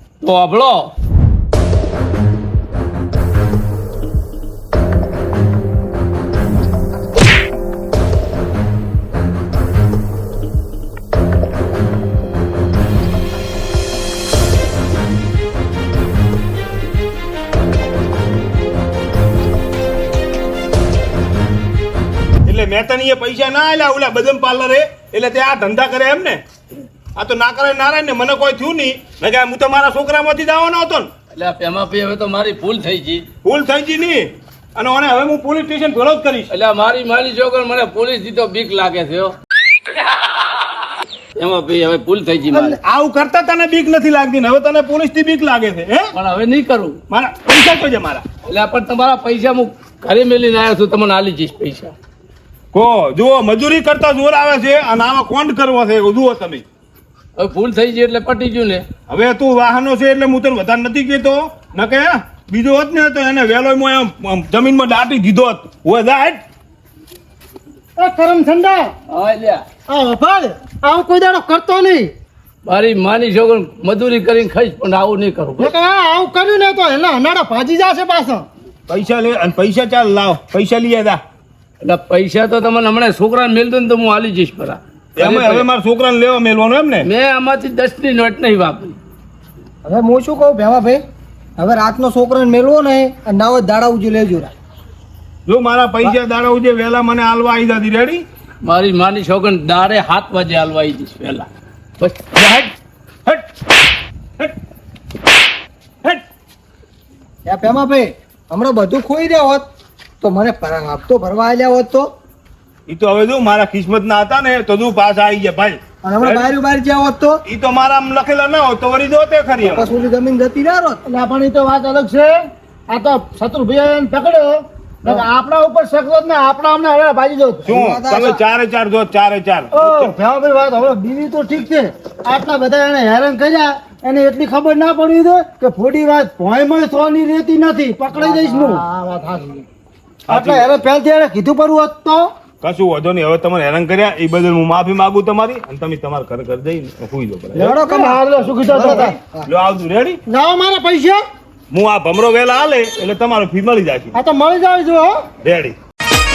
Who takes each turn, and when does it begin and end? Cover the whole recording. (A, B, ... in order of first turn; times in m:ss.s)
0:00.2-0:00.9 A
0:22.4-0:26.4 B
0:27.1-0:31.1 B
0:31.3-0:33.2 A
0:33.4-0:36.5 B
0:36.5-0:39.3 A
0:41.4-0:42.8 A
0:42.5-0:46.1 B
0:46.1-0:47.0 A
0:47.1-0:48.2 B
0:48.5-0:51.9 A
0:52.7-0:56.6 B
0:57.4-0:58.8 A
0:59.1-1:06.4 B
1:08.0-1:08.9 C
1:09.1-1:09.6 A
1:09.9-1:12.1 C
1:12.6-1:15.7 A
1:15.6-1:18.5 C
1:18.9-1:21.2 B
1:21.8-1:25.7 A
1:25.2-1:27.1 B
1:27.0-1:29.0 A
1:29.8-1:31.0 D
1:31.6-1:34.5 D
1:35.4-1:38.2 B
1:38.6-1:41.5 A
1:42.3-1:42.7 B
1:47.4-1:49.6 D
1:50.2-1:52.1 D
1:52.9-1:56.5 B
1:56.0-1:57.4 D
1:57.4-1:59.9 B
1:59.6-2:01.0 D
2:01.0-2:02.4 C
2:02.9-2:07.6 C
2:07.6-2:08.4 D
2:07.7-2:10.1 B
2:09.8-2:15.5 C
2:15.5-2:18.8 D
2:18.1-2:19.6 C
2:20.3-2:20.8 B
2:20.3-2:22.3 C
2:22.6-2:27.8 B
2:27.5-2:29.5 D
2:27.8-2:29.2 C
2:28.4-2:30.2 B
2:30.3-2:31.2 C
2:31.7-2:34.2 B
2:34.1-2:35.2 C
2:35.4-2:35.8 B